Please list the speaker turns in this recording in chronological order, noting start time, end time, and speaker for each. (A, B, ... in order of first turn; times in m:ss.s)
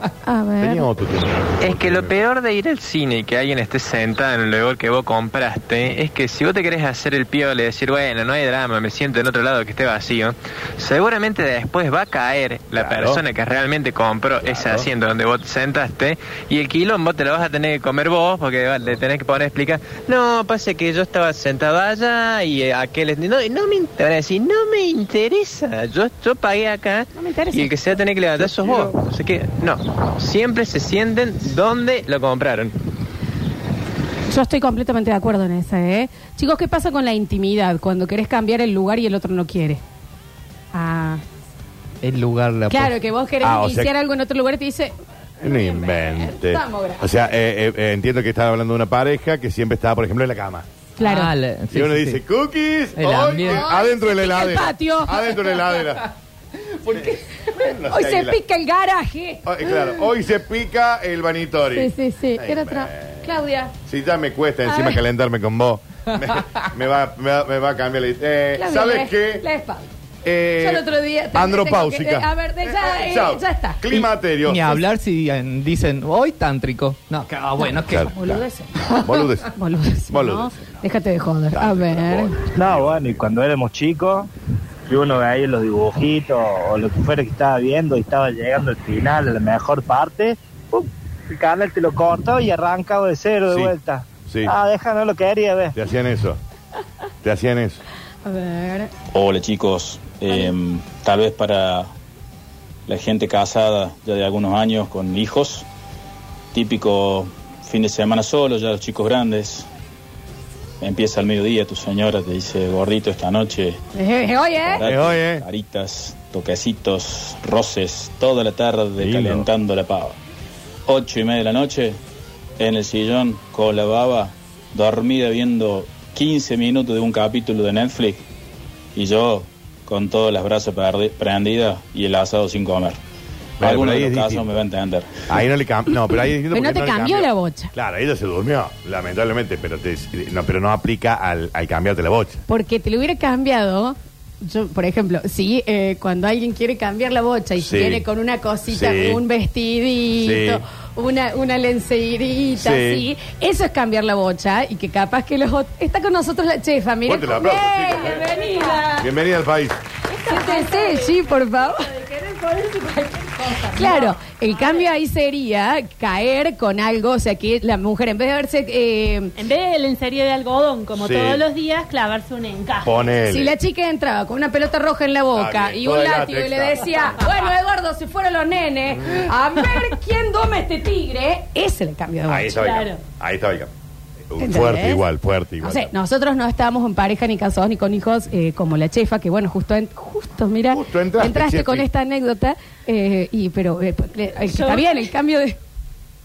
0:00.2-0:00.8 A
0:00.6-0:02.2 B
0:01.6-0:32.7 C
0:12.7-0:13.2 B
0:14.4-0:14.9 B
0:27.1-0:28.0 A
0:34.3-0:39.8 A
0:40.7-0:41.2 A
0:42.0-0:43.0 D
0:42.7-0:47.1 A
0:43.4-0:43.9 B
0:45.4-0:50.6 B
0:51.0-0:51.3 A
0:51.0-0:52.2 D
0:51.7-0:56.1 B
0:53.0-0:53.7 D
0:53.4-0:55.4 A
0:56.9-0:58.4 B
0:57.5-0:59.8 A
0:59.4-1:03.3 B
1:01.7-1:03.7 A
1:03.8-1:09.4 B
1:04.6-1:05.0 A
1:08.5-1:09.8 A
1:10.2-1:14.8 B
1:10.6-1:13.9 A
1:14.4-1:18.1 D
1:17.6-1:18.7 A
1:17.8-1:19.5 B
1:19.5-1:22.3 A
1:20.1-1:20.8 B
1:21.5-1:23.3 B
1:22.5-1:24.3 E
1:24.9-1:35.8 E
1:33.5-1:33.7 B
1:34.3-1:34.5 B
1:35.8-1:36.4 B
1:37.2-1:37.8 B
1:38.2-1:38.9 A
1:39.1-1:41.9 F
1:42.9-1:45.6 F
1:46.5-1:49.7 F
1:50.8-1:53.8 F
1:53.9-1:54.8 A
1:54.6-2:00.2 F
1:54.8-1:55.4 B
1:59.0-1:59.4 B
2:00.9-2:02.0 F
2:02.6-2:08.2 F
2:08.9-2:13.0 F
2:13.6-2:14.6 B
2:13.6-2:15.1 F
2:15.3-2:22.4 B
2:16.5-2:17.7 A
2:22.5-2:39.0 A
2:27.6-2:28.0 B
2:28.7-2:29.2 B
2:30.2-2:30.6 B
2:32.6-2:33.0 B
2:37.1-2:38.2 B
2:38.1-2:39.0 G
2:39.0-2:39.8 B
2:40.1-2:44.9 G
2:40.2-2:41.9 A
2:43.5-2:49.3 A
2:49.4-2:53.0 G
2:51.0-2:51.4 B
2:52.8-2:53.5 B
2:53.2-3:02.6 A
2:55.3-2:57.2 B
3:02.3-3:03.7 B
3:02.6-3:03.0 G
3:04.3-3:05.9 B
3:04.4-3:05.0 A
3:05.6-3:15.6 A
3:10.7-3:11.9 B
3:14.4-3:15.1 G